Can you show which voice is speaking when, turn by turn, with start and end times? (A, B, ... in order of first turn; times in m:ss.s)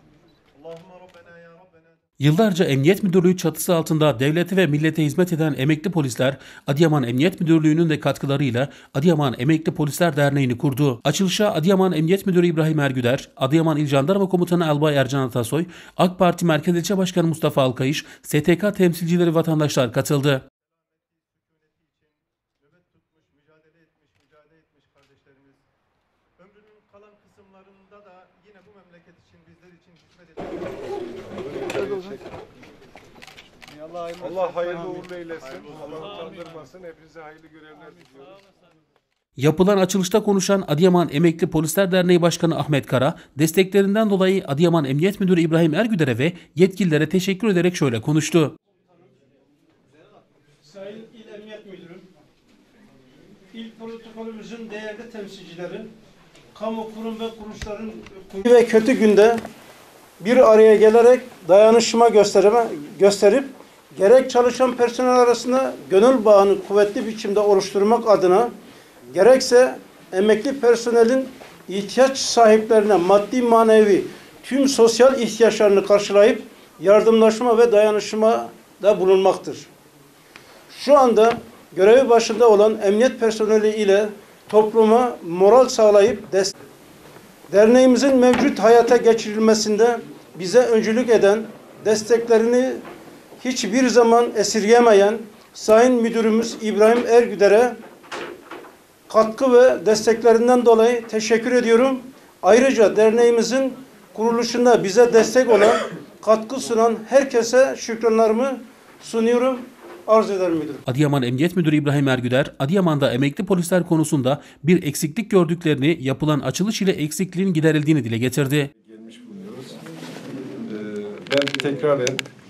0:00.6-0:01.8 A
0:02.2-0:20.4 B
0:22.6-0:25.6 A
0:26.9-0:30.8 A
0:31.3-0:32.3 C
0:33.7-0:38.4 C
0:39.4-0:48.5 B
0:50.6-0:52.1 D
0:53.5-0:55.9 D
0:56.5-0:59.4 D
1:00.2-1:08.5 D
1:09.1-1:19.7 D
1:20.7-1:26.5 D
1:27.5-1:32.8 D
1:33.4-1:37.8 D
1:39.1-1:50.8 D
1:50.9-1:58.7 B
1:58.8-1:59.8 C
2:00.6-2:02.2 C